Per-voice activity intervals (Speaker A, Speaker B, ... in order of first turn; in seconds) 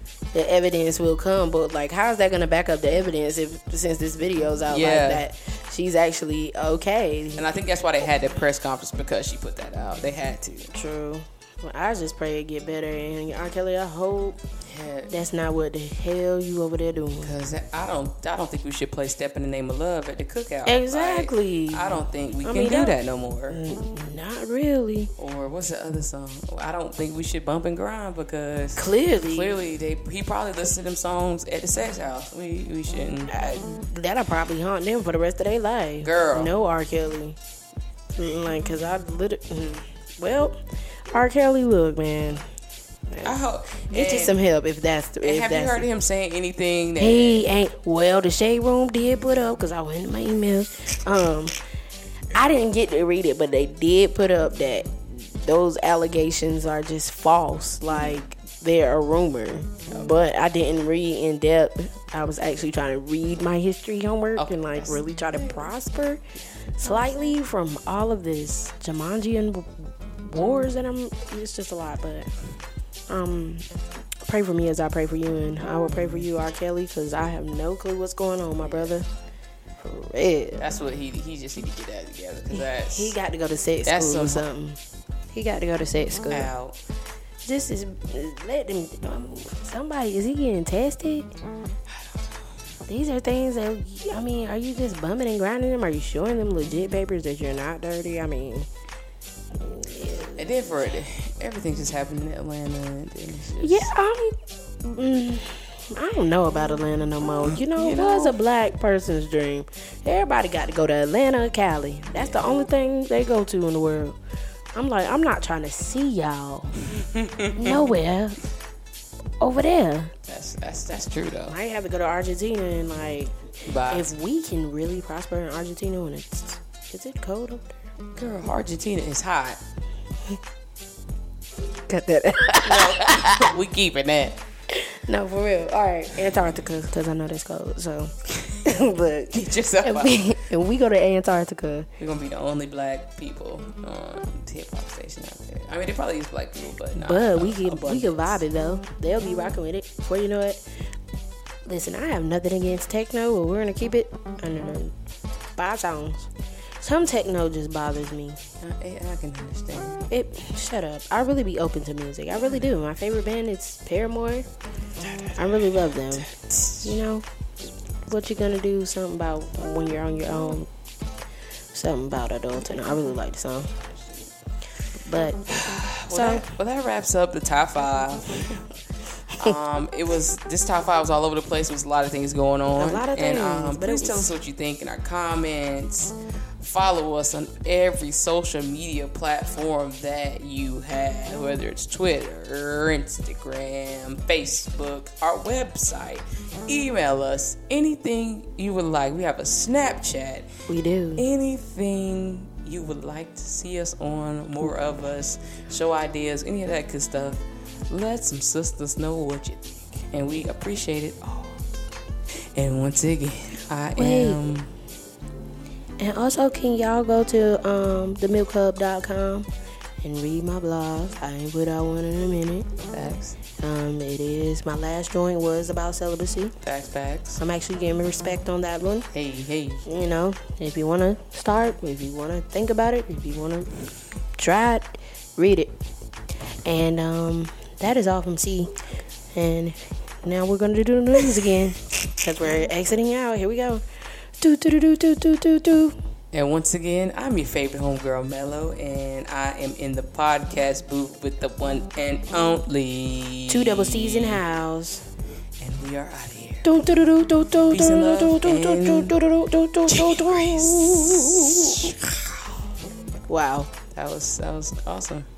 Speaker A: 0.3-7.5, 10.7-14.4, 15.1-17.3, 20.6-23.0, 23.5-25.1, 28.8-29.6, 33.3-37.4, 38.1-42.4, 43.1-43.4, 43.9-45.9, 47.0-51.6, 52.3-66.2, 66.8-72.3, 73.1-73.7, 74.2-79.0, 79.8-80.6, 82.5-84.8, 85.3-86.5, 87.4-91.3, 92.9-98.7, 99.6-101.0, 103.6-114.2, 114.7-116.8, 117.5-118.4, 119.4-120.1, 121.5-123.3, 123.9-127.7, 131.9-133.4, 134.9-141.9, 146.9-150.6, 151.7-154.9, 155.6-158.4, 160.1-164.5, 165.3-167.3, 168.1-170.7, 171.7-173.7, 175.0-176.4, 182.8-184.3, 200.7-201.2, 214.0-214.4, 216.0-219.5, 220.0-222.7, 223.6-226.6, 227.3-229.1, 229.8-233.7, 234.4-235.7, 236.6-238.7, 239.3-243.8, 244.4-245.9, 253.5-255.0, 256.6-261.9, 263.3-263.7
Speaker B: 4.7-5.2, 7.3-10.7, 14.6-15.1, 17.2-23.6, 25.2-33.4, 36.0-36.5, 43.2-44.4, 45.2-47.4, 59.9-60.1, 64.3-65.7, 75.9-76.2, 78.6-78.9, 80.6-83.1, 83.8-84.5, 86.3-86.8, 91.9-92.2, 100.3-103.9, 107.5-108.4, 112.1-112.4, 116.9-118.0, 120.3-121.5, 123.7-124.1, 128.1-129.6, 132.6-134.4, 139.3-140.3, 142.0-148.4, 158.6-160.1, 165.0-167.0, 175.5-178.6, 179.3-200.5, 201.2-211.6, 212.5-214.7, 222.9-223.4, 226.6-227.4, 229.1-229.8, 246.3-254.4, 255.6-256.9, 257.7-259.1, 259.9-262.4, 263.9-265.3